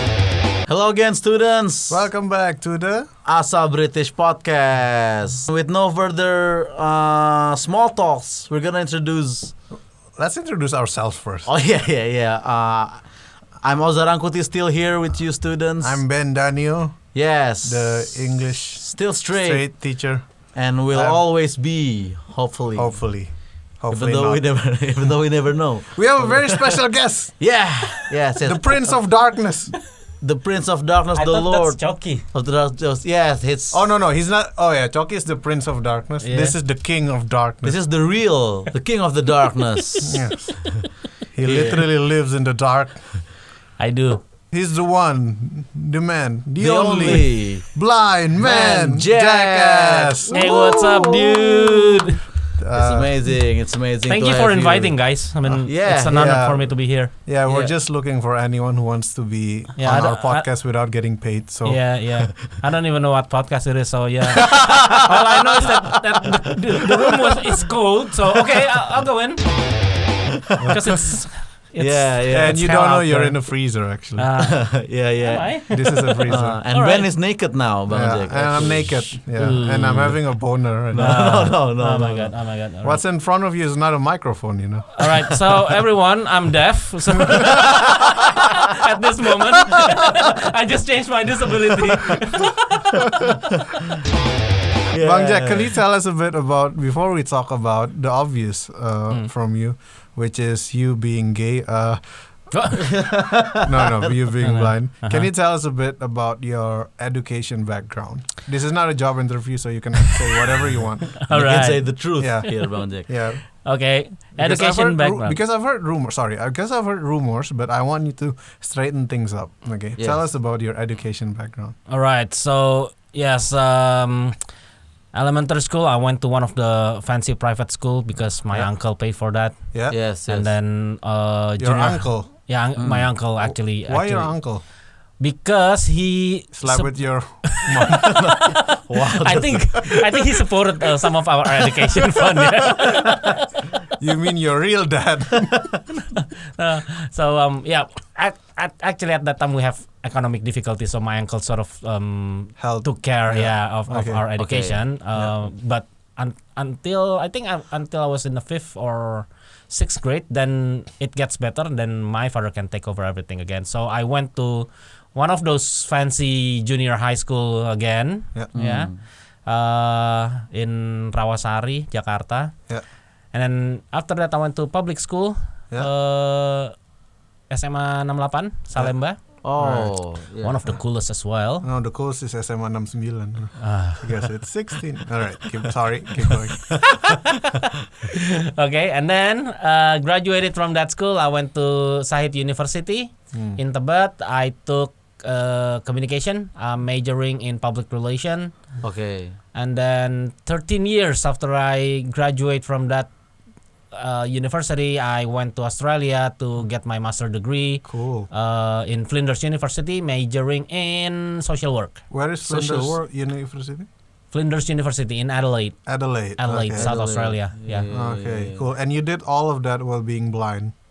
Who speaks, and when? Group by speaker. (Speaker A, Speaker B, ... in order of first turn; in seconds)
Speaker A: 0.7-2.0, 3.2-9.5, 11.5-13.0, 13.6-16.0, 17.1-20.0, 20.5-23.1, 23.9-26.8, 27.4-29.0, 30.2-33.8, 37.6-40.1, 41.4-41.8, 46.6-47.8, 48.4-52.0, 52.7-56.3, 57.5-57.7, 70.5-71.0, 71.8-73.3, 74.4-82.3, 94.9-95.7, 102.8-104.1, 111.2-113.1, 129.9-130.5, 132.8-133.1, 138.0-139.8, 154.4-154.8, 168.5-169.0, 179.4-180.6, 198.8-199.4, 212.4-212.9, 216.8-218.6
Speaker B: 1.9-3.1, 10.2-11.5, 15.8-21.2, 22.8-24.7, 25.9-27.6, 28.4-29.8, 33.7-37.8, 40.0-43.3, 44.5-50.5, 52.6-53.3, 55.4-61.9, 70.6-71.0, 72.3-74.3, 75.7-76.6, 77.9-81.5, 82.8-85.3, 94.9-102.5, 103.6-111.2, 112.2-113.4, 114.3-121.8, 131.6-132.3, 133.9-134.6, 136.5-138.5, 144.0-145.8, 152.6-154.2, 179.6-180.0, 181.6-186.9, 193.3-193.6, 207.8-208.3, 212.1-213.9, 215.8-216.9, 217.9-220.7
Speaker C: 31.1-32.3, 36.2-36.5, 39.8-40.3, 43.8-44.2, 50.3-52.2, 54.0-57.1, 59.8-60.5, 61.6-69.7, 70.7-73.2, 74.2-77.1, 79.4-79.8, 81.0-83.0, 85.0-93.2, 102.5-103.2, 104.4-105.3, 111.2-112.7, 113.6-115.4, 121.9-124.3, 125.1-134.4, 135.2-143.4, 146.0-172.6, 173.3-176.7, 177.5-179.2, 180.4-181.7, 183.6-184.2, 186.9-198.6, 199.5-203.1, 203.9-212.0, 214.3-215.8, 216.4-217.9